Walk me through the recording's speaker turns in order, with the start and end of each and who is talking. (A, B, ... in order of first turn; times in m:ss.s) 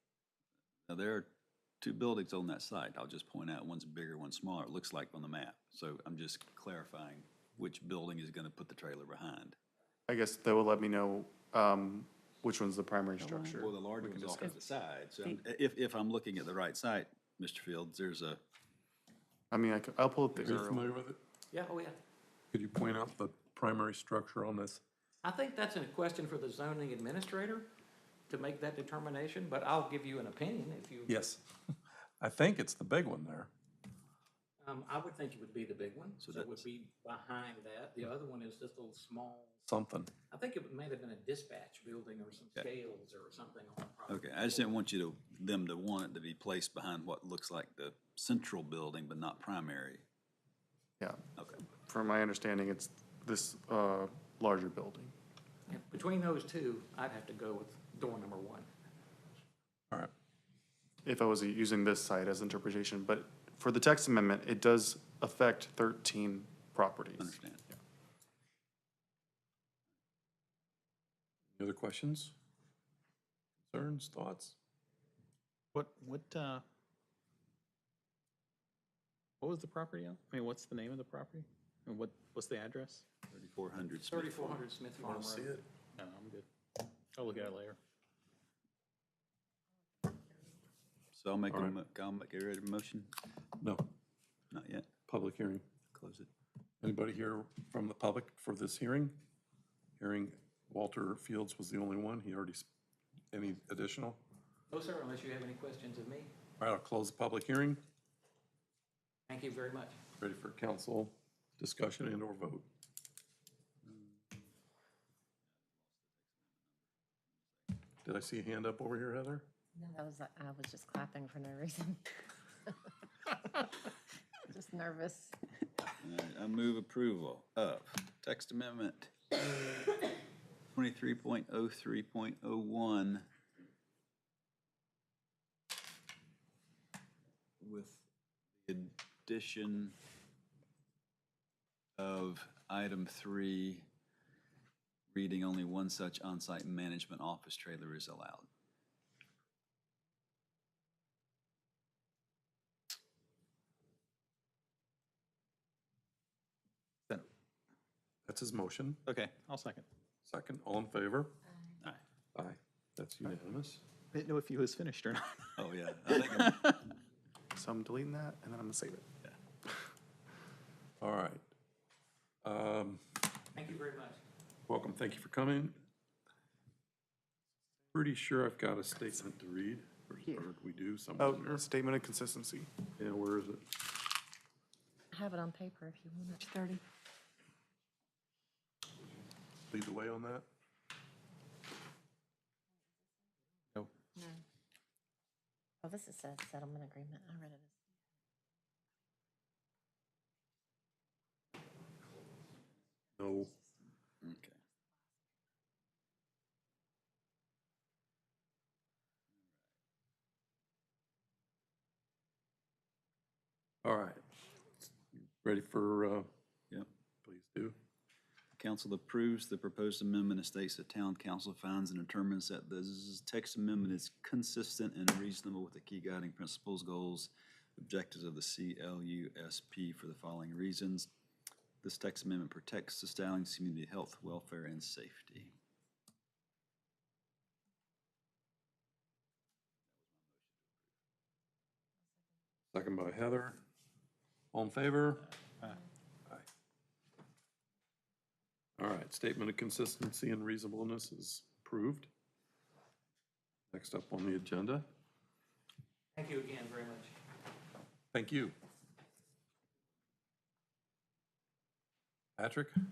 0:00.9-0:01.3 A
0:01.8-0:09.6 A
0:10.1-0:13.8 B
0:13.5-0:18.4 A
0:19.5-0:20.9 B
0:20.4-0:21.2 C
0:21.5-0:22.0 D
0:22.5-0:24.8 C
0:25.2-0:27.7 D
0:28.3-0:31.1 D
0:31.1-0:31.4 C
0:32.2-0:33.5 C
0:34.6-0:39.6 D
0:36.2-0:36.6 A
0:39.7-0:40.1 C
0:40.3-0:44.7 D
0:44.1-0:50.0 A
0:51.0-0:55.1 B
0:51.4-0:51.6 A
0:55.7-0:58.7 D
1:01.0-1:07.3 B
1:07.2-1:07.6 A
1:11.6-1:12.3 C
1:13.7-1:14.6 C
1:15.7-1:16.6 E
1:19.4-1:23.1 E
1:23.3-1:24.6 A
1:24.1-1:25.5 D
1:25.0-1:25.6 C
1:26.0-1:26.5 E
1:27.2-1:27.8 E
1:31.1-1:33.1 A
1:31.5-1:31.8 C
1:33.6-1:33.8 C
1:34.5-1:34.9 A
1:35.1-1:35.6 C
1:35.9-1:36.3 A
1:36.8-1:39.2 C
1:40.0-1:42.7 C
1:43.3-1:44.2 C
1:44.7-1:46.3 D
1:46.6-1:47.8 C
1:49.3-1:50.0 D
1:50.2-1:52.7 C
1:58.0-1:59.5 C
1:59.8-2:02.1 F
2:04.5-2:05.4 F
2:06.0-2:09.3 A
2:10.8-2:13.3 A
2:17.6-2:18.0 A
2:18.6-2:20.0 A
2:22.0-2:23.9 A
2:25.1-2:28.5 A
2:38.3-2:39.0 C
2:39.1-2:39.9 E
2:40.2-2:41.4 C
2:42.4-2:43.8 C
2:44.1-2:46.6 E
2:45.6-2:46.9 A
2:47.6-2:49.1 B
2:51.0-2:51.4 C
2:52.4-2:53.0 C
2:53.6-2:54.2 D
2:54.7-2:55.8 C
2:57.9-3:01.6 C
3:01.2-3:02.7 B
3:03.0-3:03.8 C
3:05.1-3:06.6 F
3:09.7-3:10.5 C
3:15.8-3:17.7 F
3:23.2-3:23.5 C
3:24.2-3:24.6 A
3:33.8-3:34.2 C
3:35.2-3:36.3 C
3:37.2-3:37.8 C
3:38.6-3:51.1 A
3:51.8-3:55.5 A
4:00.3-4:00.7 A
4:02.7-4:03.6 C
4:04.5-4:05.3 C
4:08.8-4:12.1 C
4:13.7-4:14.8 C
4:16.2-4:17.1 D
4:18.1-4:18.6 C
4:22.4-4:22.8 C